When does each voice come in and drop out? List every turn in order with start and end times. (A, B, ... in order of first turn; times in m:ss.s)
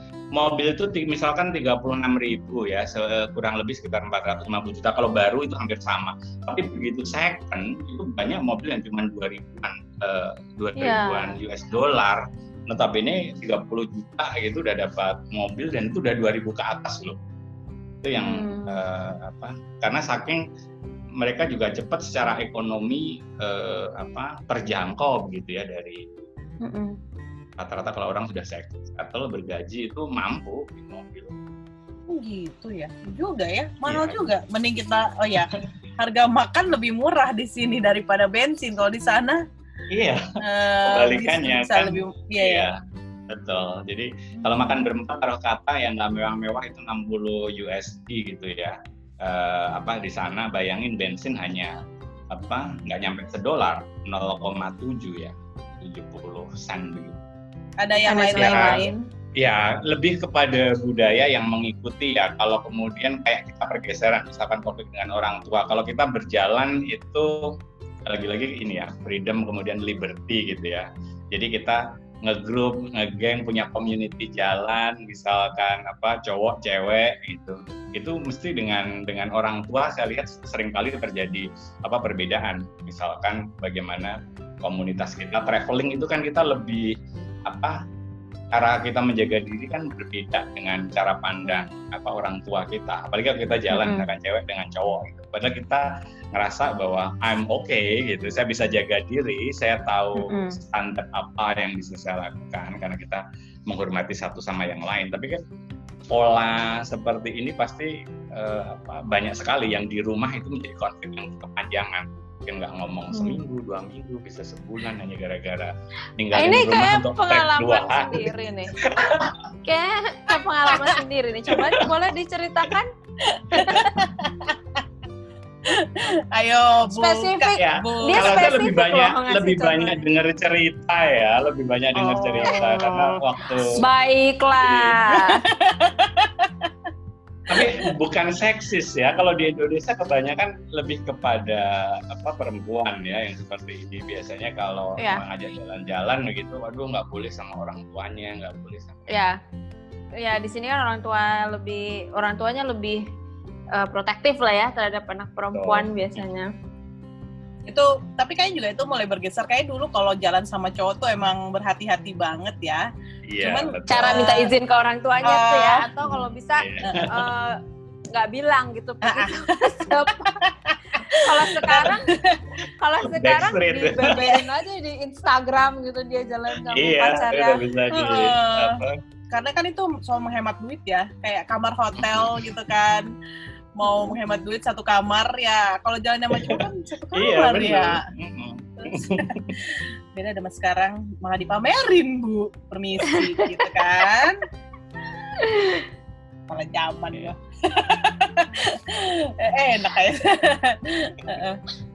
0:00.3-0:17.2 A
0:10.8-0:11.3 B
0:18.0-0:20.4 A
0:18.2-0:18.8 B
0:21.2-0:26.1 A
0:26.6-0:27.0 B
0:27.6-0:31.3 A
0:32.1-0:39.4 C
0:33.9-0:34.2 A
0:39.9-0:40.2 A
0:40.4-0:42.7 C
0:40.8-0:42.7 A
0:43.3-0:51.7 A
0:44.4-0:44.7 C
0:52.3-0:57.2 A
0:57.8-0:58.9 C
0:58.0-0:59.0 B
0:58.4-0:58.8 A
0:59.4-1:07.5 A
1:08.1-1:27.8 A
1:28.5-1:45.4 A
1:33.7-1:34.1 B
1:40.2-1:40.6 B
1:46.1-1:59.5 A
1:53.1-1:53.4 B
1:56.3-1:58.7 B
1:59.6-2:02.9 B
2:00.7-2:01.0 C
2:01.5-2:01.9 A
2:03.2-2:04.6 C
2:03.6-2:04.0 B
2:05.7-2:08.5 C
2:06.9-2:10.0 B
2:07.6-2:13.8 A
2:11.9-2:15.4 B
2:14.6-2:15.0 A
2:15.1-2:16.6 C
2:17.5-2:29.1 A
2:25.0-2:25.2 B
2:29.1-2:29.4 B
2:30.2-2:33.0 B
2:33.7-2:36.5 B
2:35.5-2:36.3 A
2:37.7-2:42.8 C
2:43.2-2:44.3 A
2:43.4-2:44.5 C
2:43.9-2:47.6 B
2:45.2-2:45.8 C
2:46.0-2:47.3 A
2:48.1-2:50.4 B
2:49.0-2:52.4 C
2:51.1-2:52.2 B
2:52.8-2:57.6 B
2:53.0-2:54.4 A
2:54.2-2:54.4 C
2:56.6-2:59.0 A
2:57.9-2:58.8 C
2:59.3-3:03.1 C
3:02.0-3:02.5 A
3:03.8-3:08.0 C
3:06.3-3:06.6 A
3:07.1-3:09.6 A
3:08.8-3:14.4 C
3:15.4-3:15.8 B
3:16.5-3:21.6 C